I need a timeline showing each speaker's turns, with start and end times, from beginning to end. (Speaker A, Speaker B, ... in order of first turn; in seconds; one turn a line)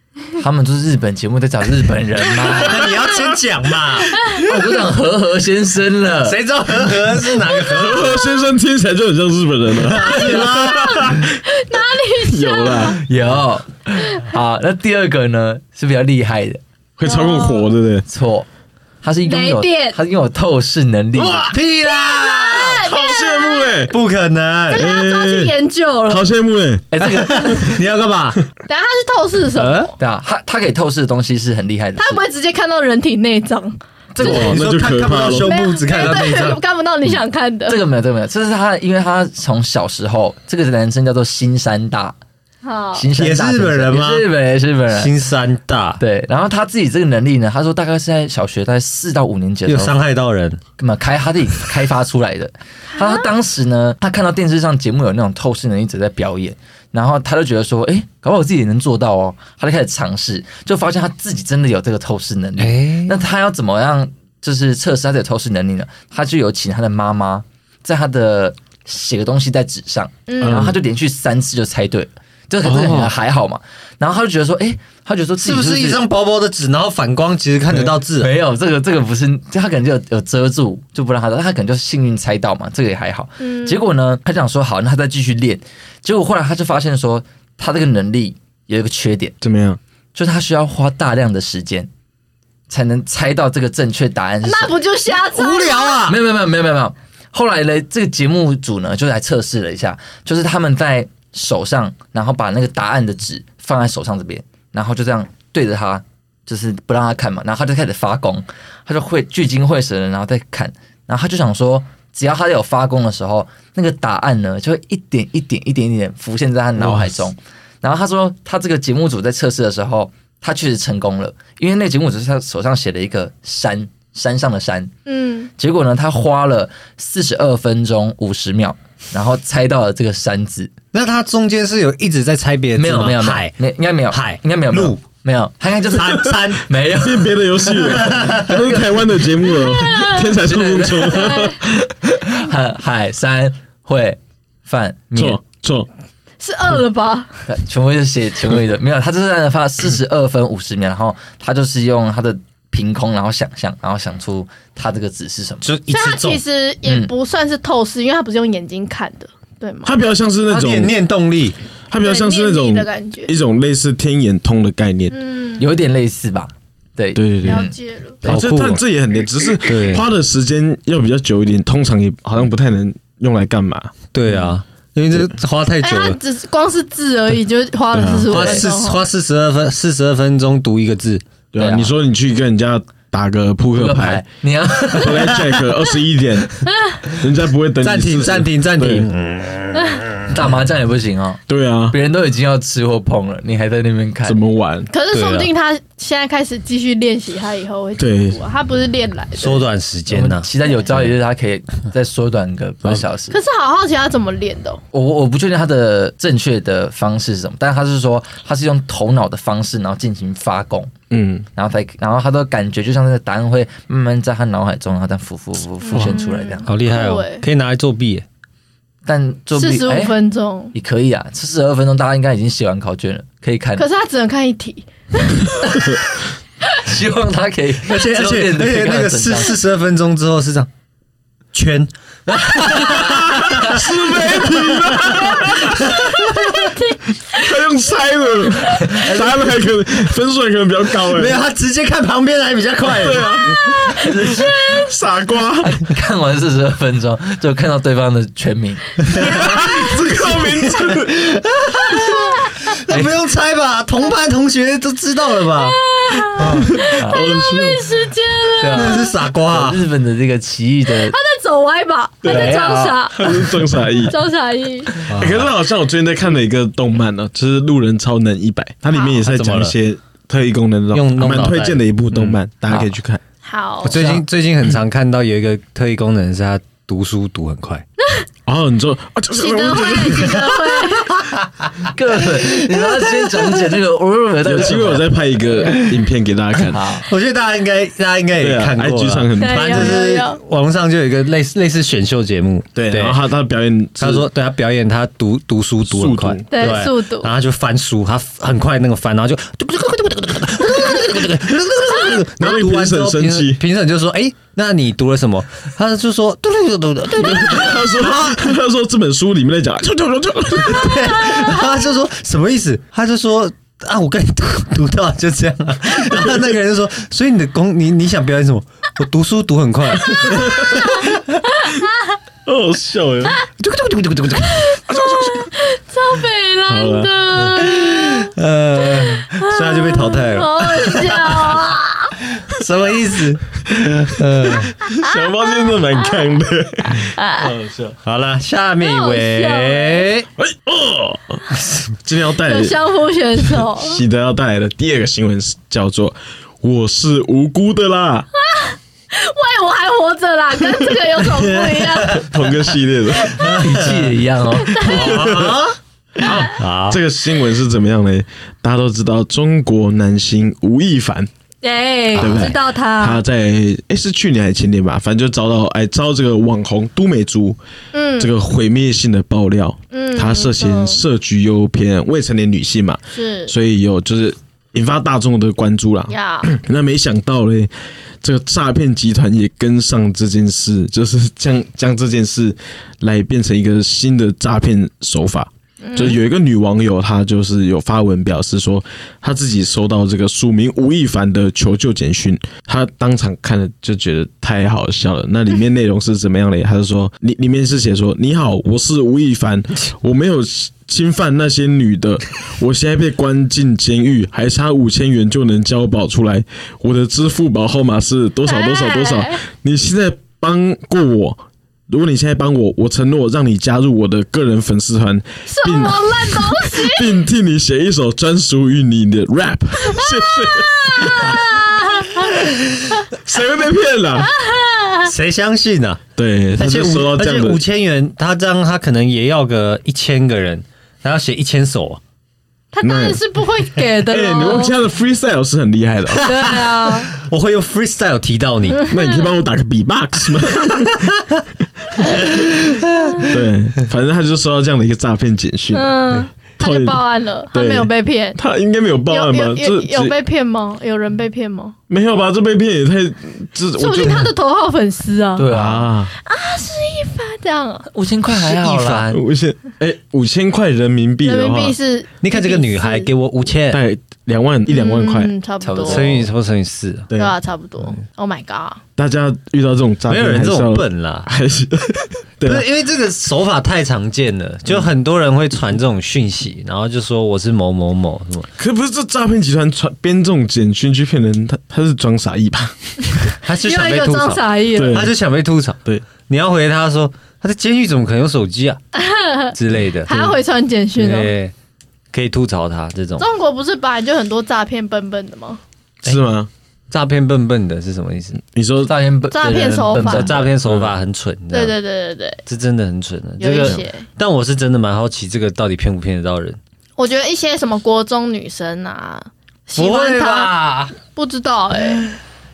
Speaker A: 0.4-2.9
Speaker B: 2.5-4.4
Speaker C: 2.8-3.2
Speaker D: 4.1-4.4
Speaker A: 4.3-6.4
Speaker B: 6.2-8.3
Speaker C: 7.6-11.4
Speaker B: 9.7-11.1
Speaker D: 10.0-13.0
Speaker C: 12.2-13.0
Speaker A: 13.0-16.6
Speaker C: 17.0-18.0
Speaker D: 17.0-17.7
Speaker A: 18.1-18.5
Speaker A: 19.0-21.5
Speaker D: 19.2-20.0
Speaker C: 21.1-21.6
Speaker B: 21.5-22.8
Speaker D: 21.9-23.8
Speaker C: 22.6-23.9
Speaker B: 23.9-24.8
Speaker D: 24.7-26.3
Speaker C: 24.7-25.5
Speaker C: 26.1-27.1
Speaker A: 26.9-27.7
Speaker B: 27.0-28.4
Speaker D: 28.7-29.9
Speaker B: 29.6-29.9
Speaker A: 30.0-32.2
Speaker D: 32.0-33.8
Speaker A: 34.1-34.6
Speaker B: 34.2-36.6
Speaker C: 34.2-35.5
Speaker D: 35.4-37.8
Speaker A: 37.7-42.1
Speaker D: 42.6-43.0
Speaker A: 42.9-45.1
Speaker B: 43.1-44.2
Speaker B: 44.9-46.0
Speaker A: 46.0-50.0
Speaker B: 49.6-50.6
Speaker A: 50.8-76.0
Speaker B: 62.6-63.1
Speaker D: 70.3-70.7
Speaker C: 70.4-70.8
Speaker C: 72.6-73.1
Speaker B: 75.4-78.3
Speaker A: 78.2-89.3
Speaker D: 83.4-83.8
Speaker C: 89.4-89.8
Speaker A: 90.1-91.9
Speaker A: 92.7-94.7
Speaker D: 94.4-96.0
Speaker B: 95.3-96.2
Speaker A: 96.1-124.9
Speaker C: 116.8-117.1
Speaker D: 125.0-125.5
Speaker A: 125.6-130.7
Speaker B: 130.9-133.6
Speaker A: 132.8-139.1
Speaker B: 134.1-135.0
Speaker B: 135.9-136.7
Speaker C: 136.9-141.6
Speaker B: 137.8-138.4
Speaker D: 139.5-140.3
Speaker A: 140.3-145.4
Speaker D: 141.1-141.6
Speaker C: 145.1-145.9
Speaker D: 146.4-147.3
Speaker A: 147.4-155.7
Speaker B: 155.6-156.4
Speaker D: 155.9-159.9
Speaker A: 156.8-157.1
Speaker C: 159.8-160.9
Speaker B: 160.5-161.6
Speaker C: 161.9-165.1
Speaker D: 162.0-163.3
Speaker D: 165.1-165.6
Speaker A: 165.6-167.7
Speaker C: 167.1-167.7
Speaker D: 167.4-168.2
Speaker B: 168.2-168.8
Speaker C: 168.2-174.5
Speaker B: 169.6-170.1
Speaker B: 174.1-176.2
Speaker D: 175.8-179.0
Speaker C: 177.9-178.6
Speaker B: 178.3-181.2
Speaker C: 181.5-184.2
Speaker A: 181.6-181.9
Speaker A: 183.7-185.4
Speaker C: 184.9-189.1
Speaker B: 187.8-190.5
Speaker A: 190.3-191.4
Speaker C: 191.5-191.9
Speaker A: 191.9-194.4
Speaker C: 194.2-194.9
Speaker D: 194.9-199.6
Speaker B: 195.1-195.5
Speaker C: 198.0-198.4
Speaker B: 199.4-200.5
Speaker A: 200.1-203.3
Speaker D: 203.3-204.8
Speaker A: 204.9-210.9
Speaker C: 211.1-211.5
Speaker A: 211.6-216.7
Speaker D: 215.8-217.4
Speaker B: 216.7-218.2
Speaker A: 219.1-220.1
Speaker D: 219.5-220.7
Speaker A: 220.7-223.8
Speaker D: 223.8-225.7
Speaker A: 226.8-229.6
Speaker B: 227.8-230.7
Speaker B: 231.5-236.5
Speaker A: 232.3-233.7
Speaker C: 233.1-236.7
Speaker D: 236.1-237.5
Speaker C: 237.3-241.4
Speaker A: 238.9-239.6
Speaker B: 241.1-243.4
Speaker C: 242.8-245.8
Speaker A: 243.9-244.7
Speaker D: 244.2-244.9
Speaker A: 245.6-249.6
Speaker B: 249.0-249.4
Speaker C: 249.2-251.3
Speaker D: 249.2-249.9
Speaker B: 250.2-256.7
Speaker D: 251.9-252.8
Speaker A: 252.9-253.2
Speaker D: 255.6-259.1
Speaker C: 256.5-257.9
Speaker A: 257.0-257.3
Speaker A: 258.6-261.1
Speaker B: 258.7-259.8
Speaker D: 260.9-264.9
Speaker C: 262.2-262.6
Speaker A: 262.2-263.0
Speaker C: 263.1-264.1
Speaker B: 265.1-265.5
Speaker C: 265.1-273.2
Speaker D: 268.9-269.2
Speaker B: 269.2-269.8
Speaker B: 270.9-272.9
Speaker D: 273.4-274.2
Speaker B: 273.8-277.8
Speaker C: 278.4-280.6
Speaker D: 279.3-281.2
Speaker B: 281.0-282.5
Speaker A: 281.9-285.0
Speaker C: 284.4-286.9
Speaker A: 286.7-287.0
Speaker B: 287.0-293.2
Speaker C: 288.4-290.0
Speaker D: 289.4-290.4
Speaker C: 292.9-294.2
Speaker B: 294.0-308.5
Speaker C: 295.9-296.4
Speaker D: 296.5-297.3
Speaker C: 302.4-303.6
Speaker C: 307.2-311.6
Speaker B: 310.6-321.2
Speaker C: 320.2-321.1
Speaker D: 321.6-322.1
Speaker C: 322.4-323.4
Speaker B: 323.6-324.8
Speaker D: 324.5-328.3
Speaker C: 324.9-325.5
Speaker C: 326.7-327.1
Speaker B: 327.6-331.6
Speaker D: 329.0-332.1
Speaker B: 332.4-334.8
Speaker C: 333.6-337.9
Speaker D: 335.0-336.2
Speaker D: 337.1-337.5
Speaker B: 338.0-340.3
Speaker D: 338.8-340.1
Speaker C: 340.4-342.8
Speaker D: 342.4-344.0
Speaker C: 343.4-348.3
Speaker D: 348.4-352.5
Speaker C: 352.1-353.6
Speaker B: 353.4-354.1
Speaker A: 353.4-354.8
Speaker B: 354.8-355.8
Speaker C: 354.8-355.6
Speaker C: 356.2-361.3
Speaker B: 356.5-357.0
Speaker D: 361.6-363.2
Speaker C: 362.1-367.6
Speaker D: 367.9-368.3
Speaker C: 368.2-421.6
Speaker D: 369.9-371.0
Speaker D: 373.1-373.5
Speaker D: 376.1-376.5
Speaker D: 385.8-386.2
Speaker D: 408.4-409.4
Speaker D: 415.5-417.1
Speaker D: 419.9-422.4
Speaker C: 423.1-424.3
Speaker D: 424.2-425.1
Speaker B: 425.0-426.0
Speaker C: 426.2-427.6
Speaker B: 426.5-432.0
Speaker D: 432.7-434.7
Speaker C: 432.8-433.2
Speaker C: 434.0-436.2
Speaker B: 436.2-438.9
Speaker D: 436.2-437.1
Speaker D: 438.8-439.2
Speaker C: 438.8-441.1
Speaker B: 440.4-441.1
Speaker C: 441.9-442.5
Speaker B: 442.1-443.2
Speaker C: 443.2-447.0
Speaker D: 445.7-448.4
Speaker C: 447.5-450.1
Speaker D: 449.1-451.7
Speaker C: 451.9-454.3
Speaker D: 453.8-455.5
Speaker A: 455.4-455.9
Speaker C: 455.5-456.1
Speaker D: 456.2-457.9
Speaker A: 457.9-459.1
Speaker B: 458.3-459.2
Speaker C: 459.1-461.8
Speaker D: 461.2-463.1
Speaker B: 462.2-463.8
Speaker C: 463.7-465.3
Speaker D: 464.6-466.2
Speaker A: 465.6-466.3
Speaker B: 465.8-467.1
Speaker C: 467.1-467.3
Speaker D: 467.1-468.8
Speaker C: 469.0-472.6
Speaker B: 470.1-471.3
Speaker B: 472.4-478.5
Speaker C: 478.6-483.3
Speaker B: 483.4-488.8
Speaker D: 483.6-485.0
Speaker C: 484.7-485.1
Speaker D: 488.9-491.3
Speaker B: 489.5-490.3
Speaker B: 491.0-491.5
Speaker B: 492.1-493.2
Speaker D: 493.2-495.6
Speaker C: 496.0-496.5
Speaker B: 496.9-498.4
Speaker C: 498.5-498.9
Speaker A: 498.9-500.5
Speaker D: 499.3-500.3
Speaker B: 499.4-501.7
Speaker C: 500.6-500.9
Speaker D: 501.5-502.4
Speaker B: 502.5-506.6
Speaker D: 503.4-504.0
Speaker D: 507.0-510.5
Speaker B: 509.8-510.9
Speaker D: 511.1-512.1